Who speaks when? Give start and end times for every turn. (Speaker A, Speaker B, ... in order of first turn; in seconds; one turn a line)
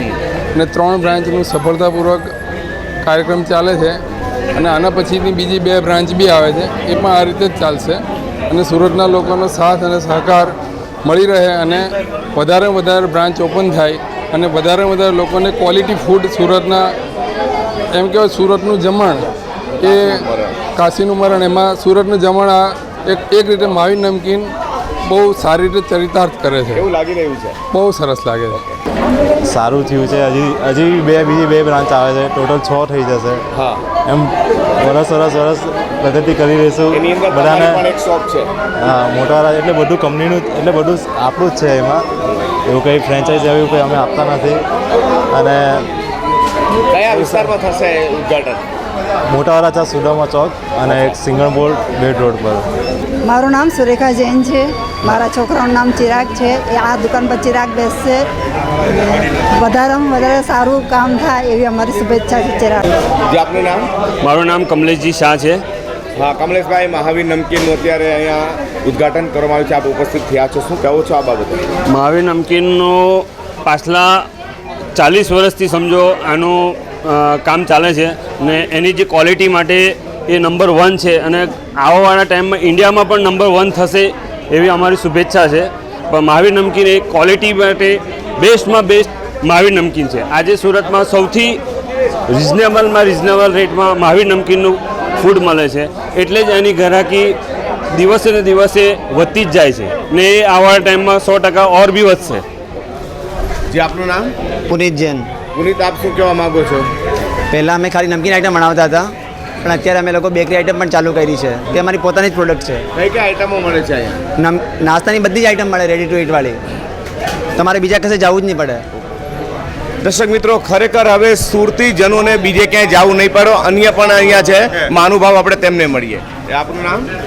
Speaker A: 0.5-2.3
Speaker A: 3.0-4.0
Speaker A: 4.5-10.5
Speaker A: 11.0-16.9
Speaker A: 17.9-19.2
Speaker B: 19.8-20.6
Speaker A: 19.8-24.5
Speaker A: 25.1-26.8
Speaker B: 26.7-27.6
Speaker A: 27.7-28.6
Speaker C: 29.4-33.4
Speaker B: 33.5-33.8
Speaker C: 34.0-37.8
Speaker B: 36.9-38.5
Speaker C: 38.8-42.1
Speaker C: 42.6-44.6
Speaker C: 45.3-45.9
Speaker B: 46.9-48.6
Speaker C: 47.1-47.5
Speaker C: 49.3-52.7
Speaker D: 53.3-58.3
Speaker D: 58.9-62.9
Speaker B: 63.3-63.9
Speaker E: 64.2-65.6
Speaker B: 66.2-71.7
Speaker E: 71.9-74.3
Speaker E: 74.9-91.6
Speaker E: 92.3-97.4
Speaker E: 97.9-102.4
Speaker B: 103.7-104.3
Speaker F: 104.7-105.3
Speaker B: 105.5-106.9
Speaker F: 107.5-112.8
Speaker B: 112.9-114.2
Speaker F: 114.4-116.6
Speaker F: 117.5-118.8
Speaker B: 120.0-127.1